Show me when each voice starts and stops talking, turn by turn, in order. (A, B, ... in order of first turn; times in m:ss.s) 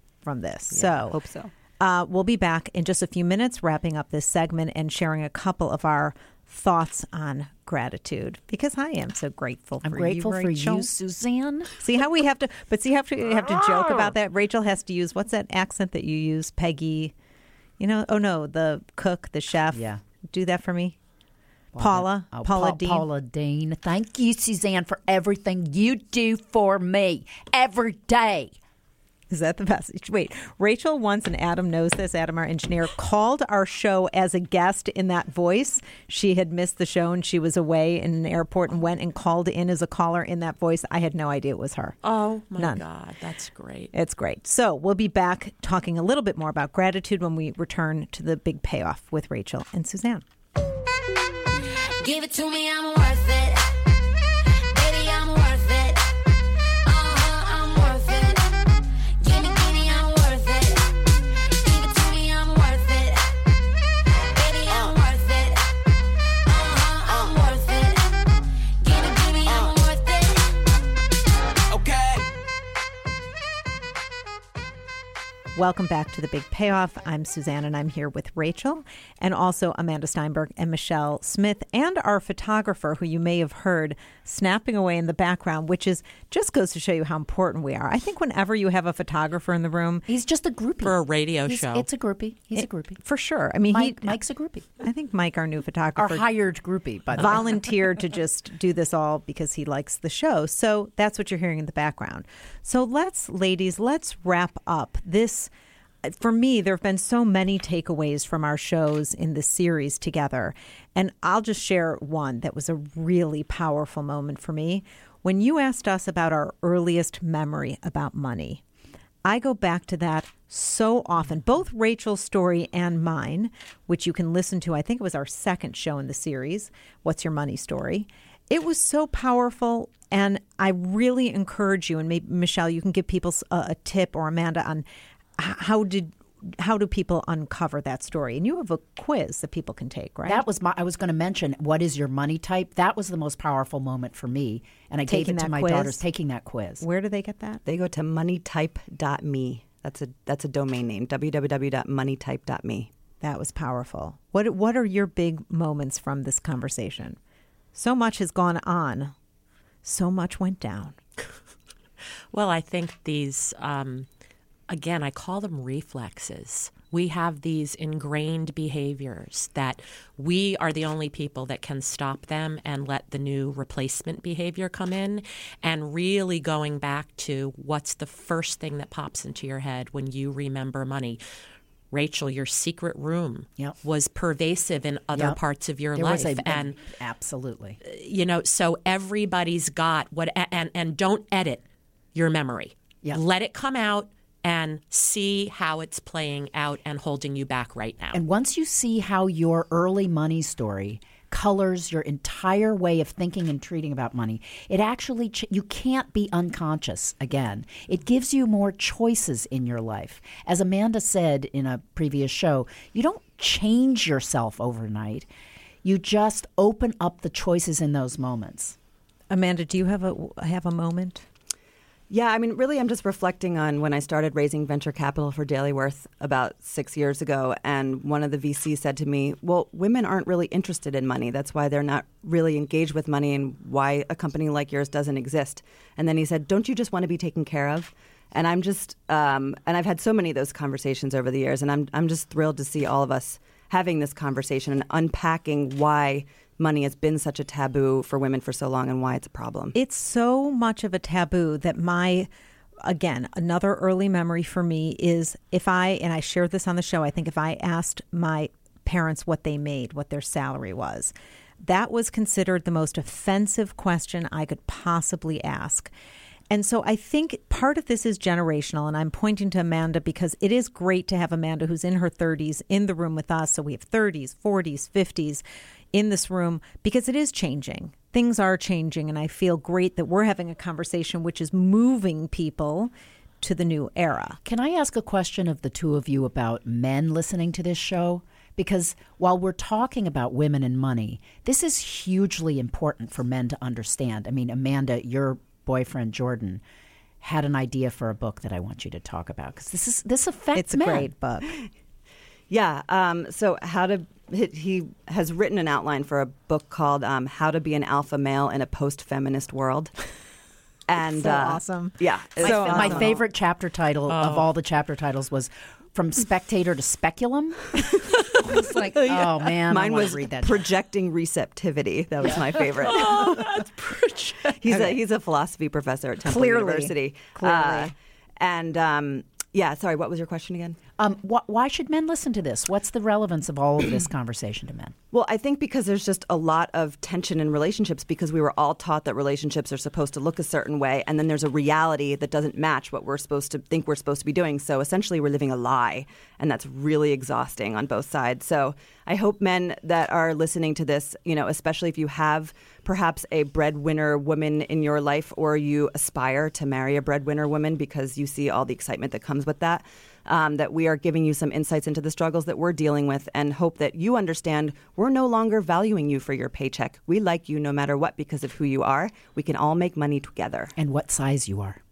0:00.2-0:01.2 A
0:00.7-0:01.5 B
0:01.8-0:10.9 A
0:09.8-0:11.7 C
0:11.8-0:17.1 A
0:13.6-0:14.1 C
0:17.8-0:21.0 A
0:19.7-0:20.0 C
0:21.7-0:28.6 C
0:21.8-0:23.1 A
0:29.3-0:42.0 A
0:42.0-0:43.9 D
0:42.6-0:42.8 A
0:43.9-0:50.2 A
0:52.0-0:53.8 E
0:54.5-0:56.1 E
0:56.8-0:58.6 E
0:59.2-1:00.9 E
1:01.5-1:03.3 E
1:04.2-1:05.7 E
1:06.4-1:10.6 E
1:15.6-1:30.1 A
1:30.1-1:33.0 C
1:30.8-1:31.9 D
1:32.6-1:34.2 A
1:33.7-1:34.7 C
1:34.8-1:36.2 A
1:35.9-1:37.6 C
1:37.2-1:45.5 A
1:46.0-1:58.6 A
1:59.2-2:14.8 A
2:15.4-2:20.4 A
2:20.2-2:26.8 C
2:25.1-2:26.0 A
2:26.8-2:27.6 A
2:27.6-2:32.9 B
2:33.2-2:37.2 A
2:37.7-2:39.1 A
2:39.8-2:41.0 A
2:42.3-2:44.1 D
2:44.7-3:01.2 D
3:01.9-3:06.8 D
3:05.1-3:05.4 C
3:05.9-3:07.8 C
3:07.8-3:18.2 D
3:18.1-3:35.3 C
3:35.8-3:38.8 C
3:39.3-3:41.2 A
3:42.1-4:09.7 B
4:09.7-4:12.3 A
4:12.8-4:25.9 A
4:26.5-4:44.4 A
4:44.4-4:56.6 C
4:57.2-5:01.1 C
5:00.6-5:01.6 A
5:02.5-5:09.9 B
5:10.9-5:13.2 B
5:11.1-5:13.1 A
5:12.4-5:20.7 C
5:14.1-5:14.5 D
5:18.4-5:23.4 B
5:22.6-5:24.6 D
5:24.6-5:30.8 B
5:26.2-5:27.9 A
5:31.0-5:34.9 C
5:35.1-6:10.7 B
6:10.8-6:11.8 C